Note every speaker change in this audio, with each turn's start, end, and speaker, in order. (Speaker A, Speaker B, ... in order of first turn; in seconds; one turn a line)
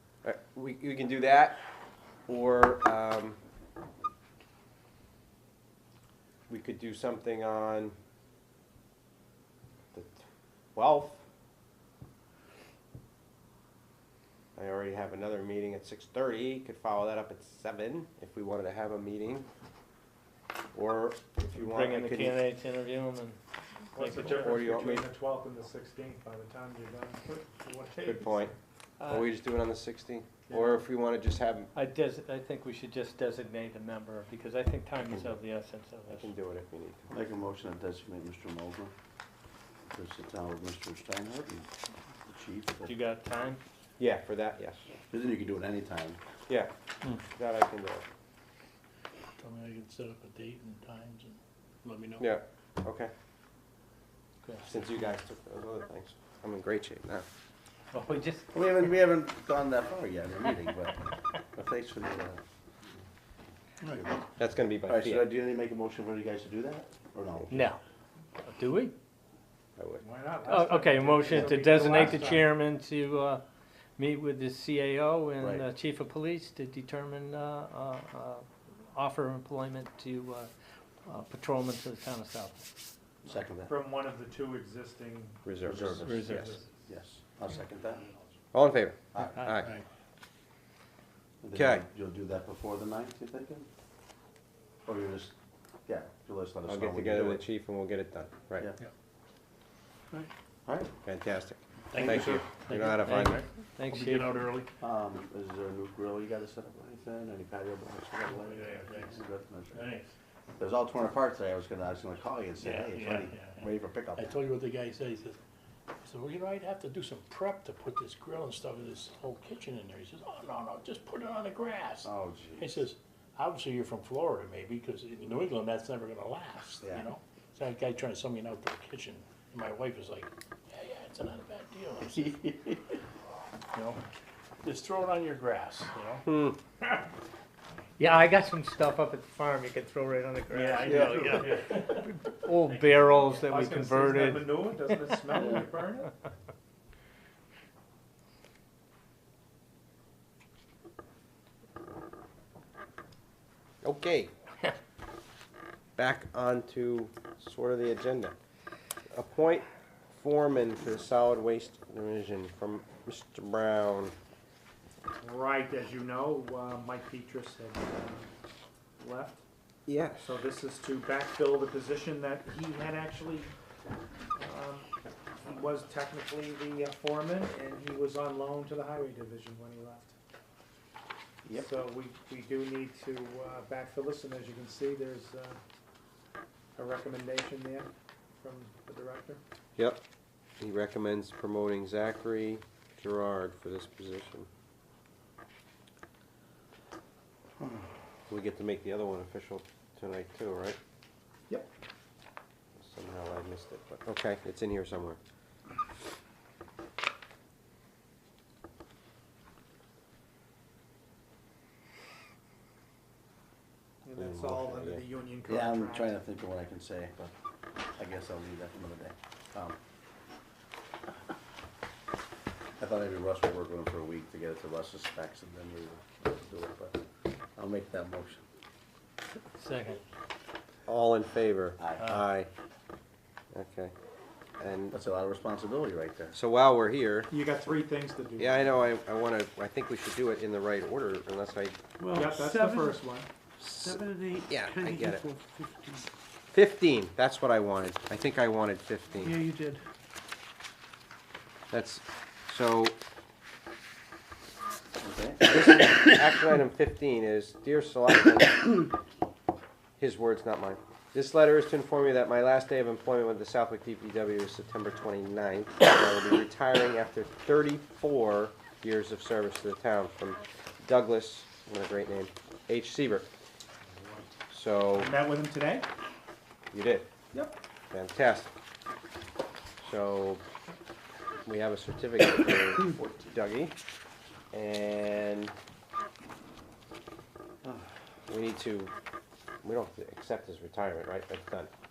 Speaker A: 0.2-1.6
Speaker A: 2.3-3.4
Speaker A: 6.5-8.0
Speaker A: 9.9-10.2
Speaker A: 10.8-11.2
Speaker A: 14.6-19.5
Speaker A: 20.7-22.4
Speaker B: 21.5-23.4
Speaker C: 23.9-28.4
Speaker B: 24.0-24.5
Speaker A: 24.4-25.1
Speaker A: 28.0-28.5
Speaker B: 29.0-29.4
Speaker A: 29.1-31.7
Speaker C: 30.5-30.9
Speaker B: 31.7-36.3
Speaker A: 36.1-37.1
Speaker D: 37.1-38.9
Speaker D: 39.9-41.7
Speaker D: 42.3-43.0
Speaker B: 42.9-43.6
Speaker A: 44.0-44.8
Speaker D: 45.1-46.2
Speaker A: 47.2-48.1
Speaker E: 49.4-52.3
Speaker A: 52.2-53.1
Speaker A: 54.6-57.2
Speaker B: 57.9-58.5
Speaker D: 58.5-62.4
Speaker E: 63.8-64.1
Speaker A: 64.4-65.2
Speaker D: 64.8-67.7
Speaker B: 67.5-67.8
Speaker B: 68.4-68.9
Speaker A: 69.8-70.0
Speaker C: 70.0-72.5
Speaker B: 70.5-73.4
Speaker B: 74.0-80.5
Speaker D: 75.4-75.7
Speaker B: 81.0-82.7
Speaker D: 83.2-83.7
Speaker C: 83.7-86.6
Speaker A: 85.4-86.6
Speaker D: 85.6-88.1
Speaker A: 88.5-89.8
Speaker D: 89.1-89.4
Speaker E: 89.6-89.8
Speaker D: 91.4-93.7
Speaker A: 91.5-91.9
Speaker D: 94.9-95.3
Speaker D: 95.9-97.5
Speaker A: 96.7-98.7
Speaker D: 100.7-101.0
Speaker A: 101.0-103.4
Speaker E: 101.9-104.7
Speaker B: 102.8-104.4
Speaker D: 104.8-109.9
Speaker E: 108.3-110.1
Speaker D: 110.6-114.3
Speaker E: 112.6-115.4
Speaker E: 116.0-132.8
Speaker D: 122.0-122.8
Speaker D: 126.8-127.1
Speaker D: 132.4-132.7
Speaker E: 133.7-134.0
Speaker E: 134.6-136.3
Speaker A: 136.3-136.6
Speaker B: 138.0-145.6
Speaker E: 140.5-142.1
Speaker C: 142.7-146.1
Speaker D: 145.4-145.7
Speaker A: 153.8-154.3
Speaker A: 156.0-158.3
Speaker A: 159.1-164.2
Speaker C: 165.2-168.3
Speaker C: 169.0-169.4
Speaker A: 169.9-170.4
Speaker C: 170.2-173.5
Speaker C: 174.4-180.1
Speaker C: 181.5-185.6
Speaker C: 186.8-189.4
Speaker A: 189.8-190.0
Speaker A: 190.6-194.5
Speaker A: 198.3-200.8
Speaker A: 202.8-205.2
Speaker C: 214.0-216.2
Speaker A: 214.2-215.1
Speaker D: 215.5-217.3
Speaker D: 218.0-219.8
Speaker D: 222.8-227.0
Speaker D: 227.6-228.4
Speaker B: 229.6-230.0
Speaker A: 230.9-232.5
Speaker D: 231.8-232.1
Speaker A: 233.5-233.9
Speaker A: 234.6-235.0
Speaker D: 234.9-236.4
Speaker A: 236.3-237.3
Speaker C: 237.3-238.8
Speaker A: 238.4-241.8
Speaker E: 242.0-242.9
Speaker C: 242.1-243.3
Speaker A: 243.6-245.3
Speaker E: 243.8-246.1
Speaker A: 246.5-249.5
Speaker E: 249.2-249.8
Speaker A: 251.7-253.0
Speaker D: 255.0-255.6
Speaker A: 255.5-258.9
Speaker A: 260.0-273.3
Speaker C: 273.9-274.3
Speaker A: 274.5-275.2
Speaker C: 274.9-275.9
Speaker A: 276.7-277.1
Speaker A: 277.9-278.5
Speaker A: 279.8-280.4
Speaker A: 281.5-283.8
Speaker A: 284.5-285.6
Speaker A: 288.3-288.9
Speaker A: 289.6-291.7